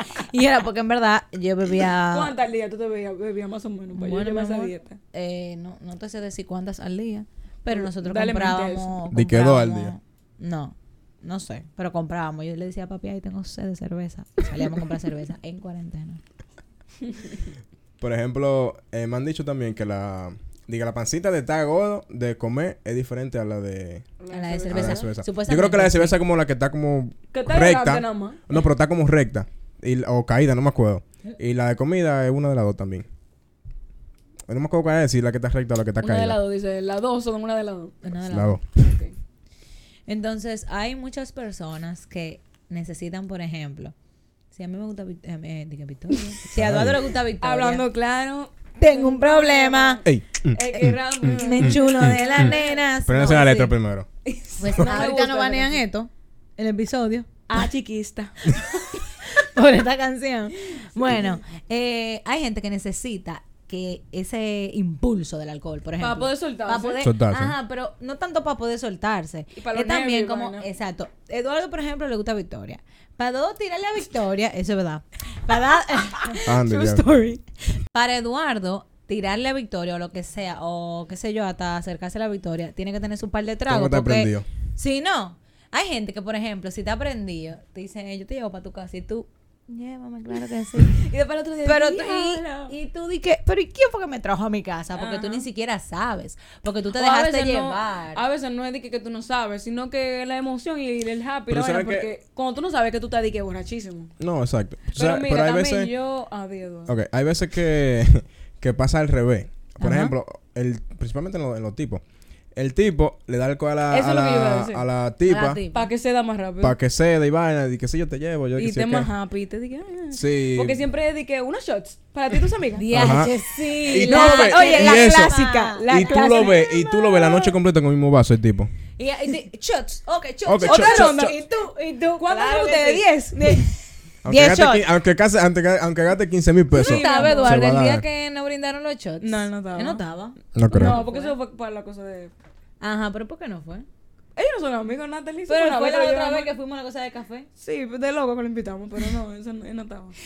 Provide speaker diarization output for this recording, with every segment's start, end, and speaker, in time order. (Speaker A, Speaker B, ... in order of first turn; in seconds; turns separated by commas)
Speaker A: 0.3-2.3, Speaker B: 2.1-5.0, Speaker A: 3.9-16.2, Speaker B: 7.7-9.0, Speaker C: 9.1-9.9, Speaker C: 18.0-24.1, Speaker B: 24.2-25.1, Speaker A: 24.3-26.1, Speaker C: 24.7-33.1, Speaker B: 27.3-28.4, Speaker C: 34.5-36.4, Speaker B: 36.0-38.0, Speaker A: 38.0-38.6, Speaker C: 38.3-38.6, Speaker B: 38.8-39.1, Speaker A: 40.1-43.9, Speaker A: 44.5-47.8, Speaker C: 46.5-47.1, Speaker B: 47.4-52.9, Speaker A: 48.8-50.0, Speaker C: 50.0-52.5, Speaker A: 51.2-53.7, Speaker C: 53.0-54.1, Speaker B: 54.2-55.8, Speaker A: 54.6-57.7, Speaker C: 54.8-55.0, Speaker B: 57.5-59.0, Speaker A: 59.2-76.5, Speaker B: 66.0-67.1, Speaker C: 67.0-67.5, Speaker B: 69.5-70.7, Speaker B: 76.2-77.4, Speaker C: 76.4-77.0, Speaker A: 77.9-91.1, Speaker C: 83.7-84.5, Speaker B: 90.8-92.7, Speaker A: 91.6-98.2, Speaker B: 94.9-95.5, Speaker B: 96.9-104.1, Speaker C: 101.5-102.1, Speaker C: 104.2-105.9, Speaker B: 104.9-106.9, Speaker C: 106.9-112.0, Speaker A: 109.8-110.1, Speaker C: 112.5-115.6, Speaker B: 113.9-114.8, Speaker A: 115.2-115.9, Speaker B: 115.7-116.7, Speaker C: 116.6-119.1, Speaker B: 118.6-122.9, Speaker C: 120.1-120.8, Speaker A: 122.8-126.7, Speaker C: 122.9-123.3, Speaker B: 123.9-127.5, Speaker C: 123.9-128.7, Speaker A: 129.0-134.8, Speaker C: 130.4-131.3, Speaker B: 130.6-131.4, Speaker B: 132.2-133.7, Speaker C: 134.2-138.0, Speaker B: 136.7-137.6, Speaker A: 136.8-141.3, Speaker B: 139.2-140.0, Speaker C: 140.5-141.0, Speaker B: 140.7-142.3, Speaker A: 142.8-143.8, Speaker B: 144.3-146.5, Speaker A: 145.5-147.5, Speaker B: 147.6-150.2